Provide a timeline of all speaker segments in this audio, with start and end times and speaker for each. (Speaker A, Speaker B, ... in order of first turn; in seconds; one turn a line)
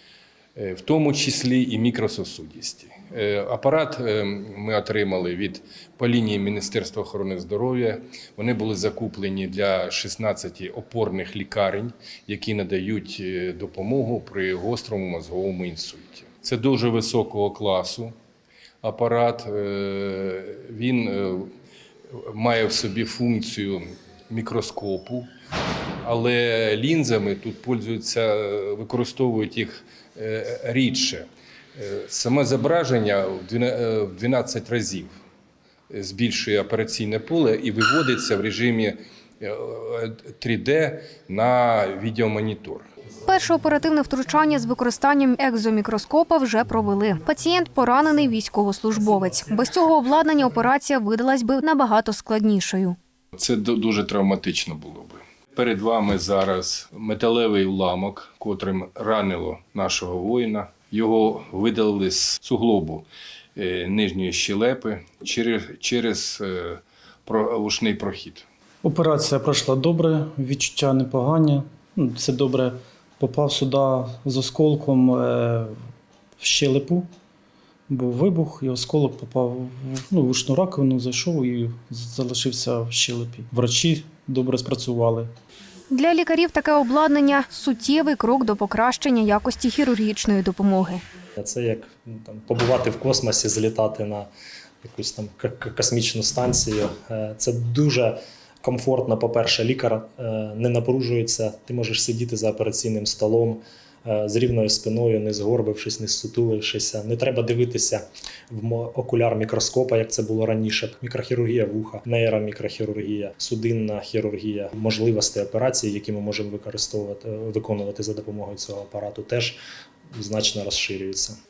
Speaker A: 0.6-18.1
Speaker A: 18.8-21.5
Speaker A: 22.1-25.3
Speaker A: 26.0-35.1
Speaker A: 35.9-42.9
Speaker B: 43.2-53.0
Speaker A: 53.4-68.5
Speaker C: 68.8-75.7
Speaker C: 76.4-77.1
Speaker C: 77.9-85.3
Speaker B: 85.9-91.0
Speaker D: 91.4-94.3
Speaker D: 94.8-119.6
Speaker D: 120.1-121.3